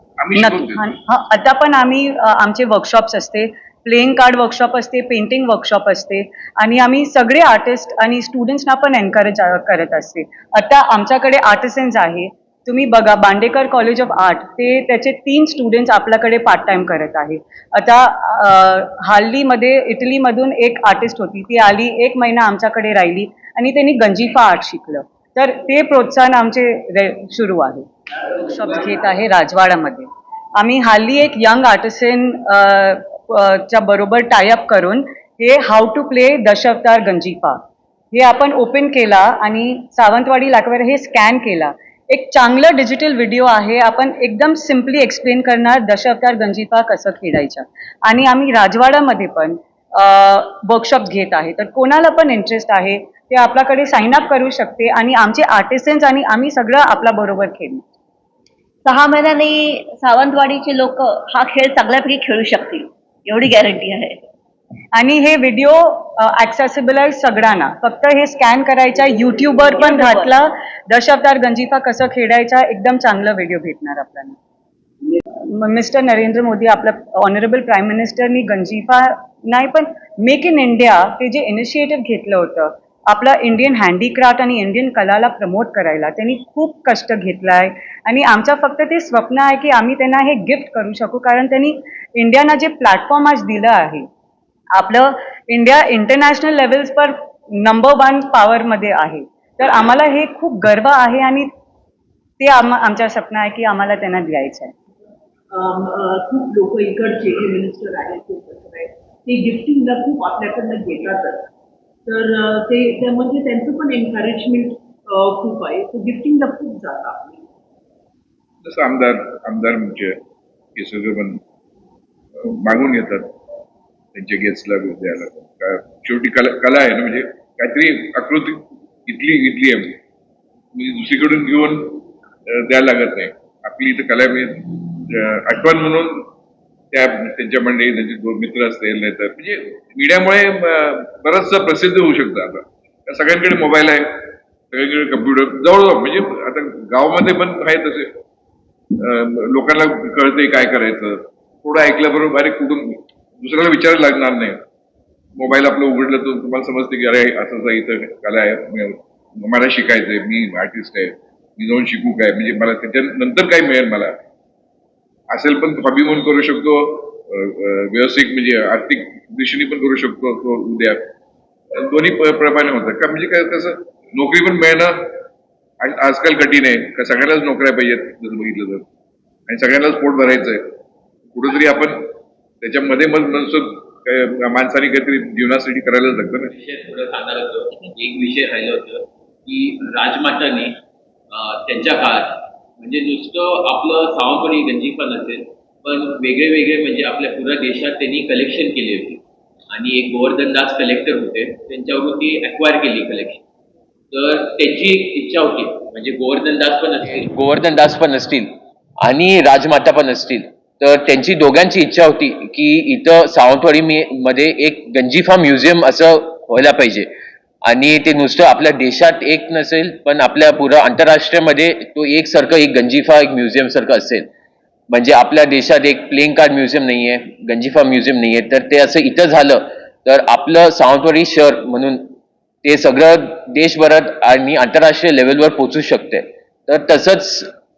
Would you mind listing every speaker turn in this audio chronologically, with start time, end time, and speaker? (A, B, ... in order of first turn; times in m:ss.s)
0:00.2-0:00.8 A
0:00.4-0:37.6 B
0:38.1-0:57.8 B
0:58.8-1:04.2 C
1:04.9-1:14.4 B
1:09.8-1:10.3 C
1:15.5-1:34.0 B
1:34.7-1:41.5 B
1:42.4-1:44.7 B
1:45.5-1:51.5 D
1:52.1-1:57.4 D
1:58.6-2:00.2 A
2:00.8-2:01.4 A
2:02.4-2:03.3 A
2:04.1-2:10.0 A
2:10.7-2:16.3 A
2:16.9-2:28.2 A
2:29.0-2:34.6 A
2:35.4-2:44.2 A
2:45.3-2:51.1 A
2:51.8-2:55.1 A
2:55.8-2:58.8 A
2:59.5-3:00.8 A
3:01.3-3:06.5 A
3:06.5-3:10.8 E
3:11.3-3:23.4 E
3:24.1-3:28.5 E
3:29.0-3:37.1 E
3:37.6-3:44.3 E
3:44.9-3:52.1 E
3:52.6-3:57.5 E